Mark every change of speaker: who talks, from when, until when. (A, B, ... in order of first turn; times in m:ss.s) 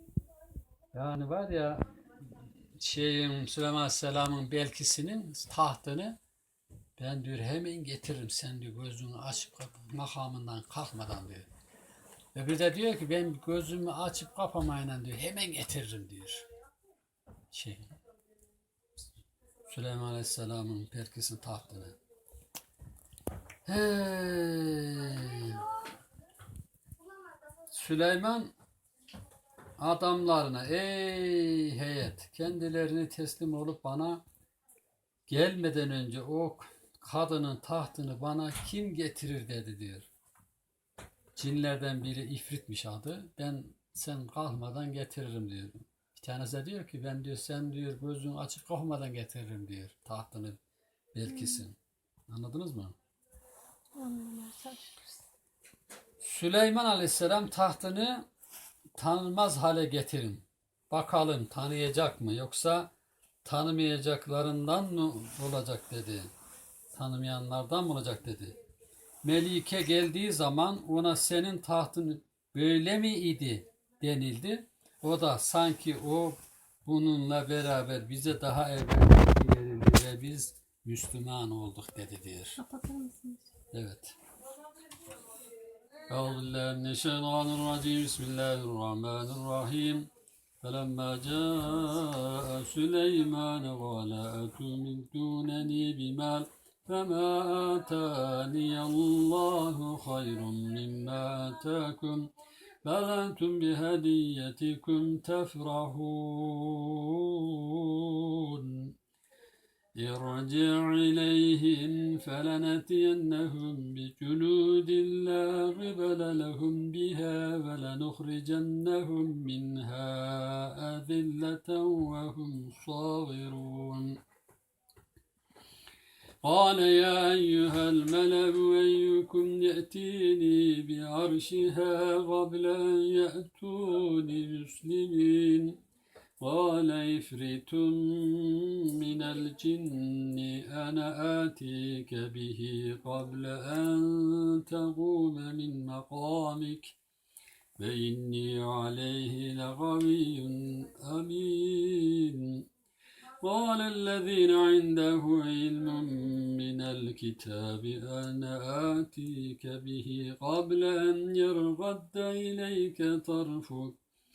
0:00.9-0:01.8 A
0:02.8-0:06.2 A
0:07.0-0:11.5 A
0:12.3-0:16.4 A
0:17.5-0:17.9 A
0:19.7-0:22.0 A
0:23.6-0:25.8 A
0:27.7-0:28.5 A
0:29.8-0:34.2 A
0:35.3-0:40.1 A
0:41.4-0:50.6 A
0:51.1-0:51.8 A
0:51.3-0:51.6 B
0:52.3-0:52.9 A
0:54.0-0:55.2 B
0:56.2-0:58.2 A
0:59.0-1:02.9 A
1:03.4-1:06.3 A
1:06.9-1:08.6 A
1:09.2-1:22.6 A
1:22.6-1:23.5 B
1:23.7-1:24.1 A
1:26.1-1:30.1 A
1:30.6-1:42.3 A
1:42.8-1:48.9 A
1:50.0-2:04.2 A
2:06.4-2:15.8 A
2:16.4-2:27.0 A
2:27.8-2:32.6 A
2:33.4-2:44.0 A